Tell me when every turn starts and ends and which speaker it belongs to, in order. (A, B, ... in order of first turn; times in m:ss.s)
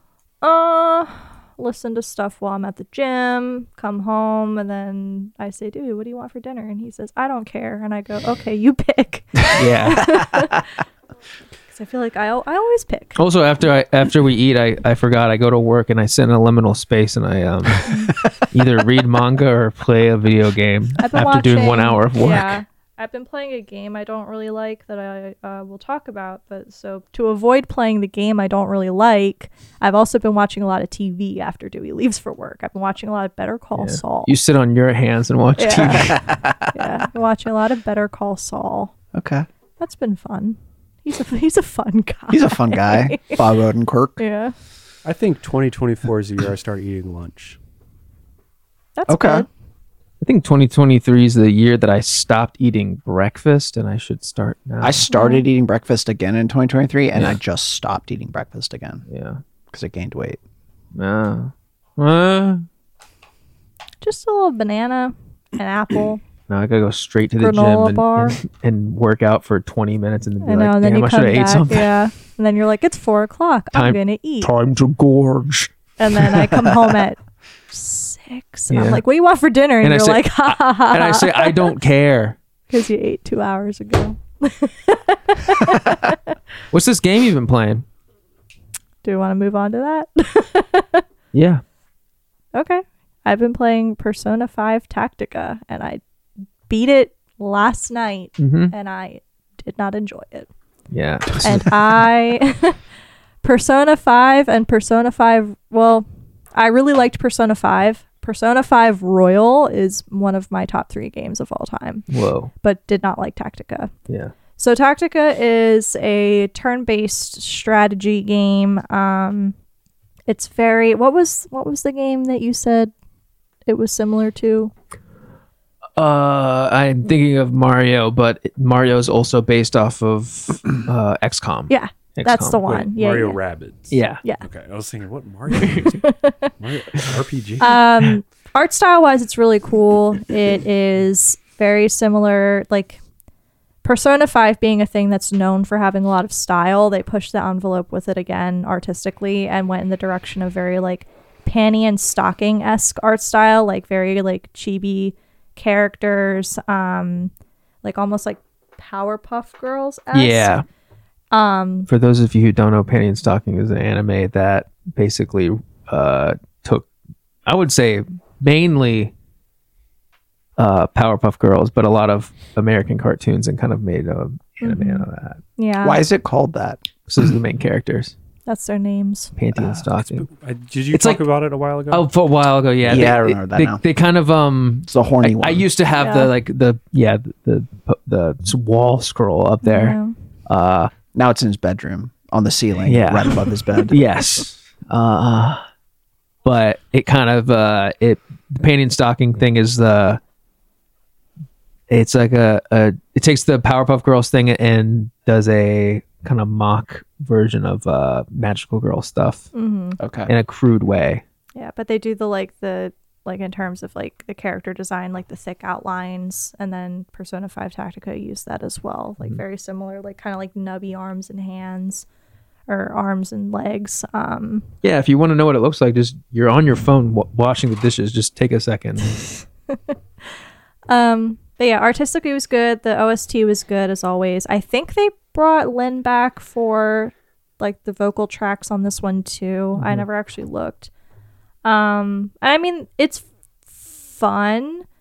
0:00.4-0:10.8 A
0:09.6-0:10.1 B
0:11.7-0:13.2 A
0:13.2-0:22.6 B
0:17.9-0:18.1 A
0:21.0-0:34.3 A
0:33.8-0:36.2 B
0:35.6-0:38.9 A
0:35.9-0:36.9 C
0:39.1-0:39.5 C
0:39.8-0:43.4 A
0:42.3-0:44.2 C
0:44.2-0:44.5 A
0:45.0-0:47.6 D
0:49.0-0:49.5 A
0:49.1-0:49.5 C
0:50.2-0:55.0 B
0:54.8-0:59.0 C
0:55.1-0:55.4 A
0:59.1-0:59.4 B
0:59.7-1:00.4 C
1:00.9-1:02.6 B
1:04.0-1:06.2 A
1:06.5-1:11.9 B
1:07.4-1:08.4 A
1:10.4-1:14.5 A
1:13.7-1:16.3 B
1:16.0-1:17.2 A
1:17.7-1:21.7 A
1:18.7-1:19.0 B
1:19.8-1:22.4 B
1:22.7-1:26.3 A
1:26.7-1:27.8 B
1:29.0-1:31.0 A
1:31.3-1:31.6 B
1:32.5-1:36.0 A
1:36.7-1:40.5 A
1:38.4-1:38.7 B
1:40.9-1:41.7 B
1:41.4-1:42.8 A
1:43.4-1:52.1 A
1:52.1-1:52.5 B
1:52.6-1:53.9 A
1:54.6-1:59.5 A
2:00.3-2:02.9 A
2:03.6-2:04.7 A
2:06.0-2:12.6 B
2:11.7-2:13.4 A
2:12.6-2:17.8 D
2:13.9-2:14.2 B
2:15.6-2:16.5 A
2:15.6-2:15.9 B
2:17.6-2:23.0 A
2:23.8-2:37.3 A
2:37.8-2:40.6 A
2:40.1-2:40.6 B
2:41.3-2:41.9 A
2:41.9-2:46.9 B
2:47.4-2:49.1 B
2:50.6-2:55.4 B
2:54.6-2:55.0 A
2:55.6-2:56.0 A
2:55.8-2:56.8 C
2:57.1-2:58.1 B
2:58.4-2:59.3 A
2:59.4-3:00.3 B
2:59.5-2:59.8 C
3:00.1-3:02.1 D
3:00.9-3:01.2 B
3:01.9-3:10.9 B
3:02.8-3:03.8 C
3:04.9-3:05.6 C
3:06.0-3:06.3 A
3:09.6-3:10.1 A
3:11.1-3:14.0 C
3:12.8-3:15.6 B
3:16.4-3:20.2 B
3:21.9-3:29.5 B
3:29.5-3:30.0 A
3:30.0-3:30.3 C
3:30.3-3:31.2 B
3:31.5-3:42.0 A
3:42.7-3:44.7 A
3:44.8-3:49.2 B
3:50.9-4:00.9 A
3:59.8-4:00.0 B
4:01.6-4:04.8 A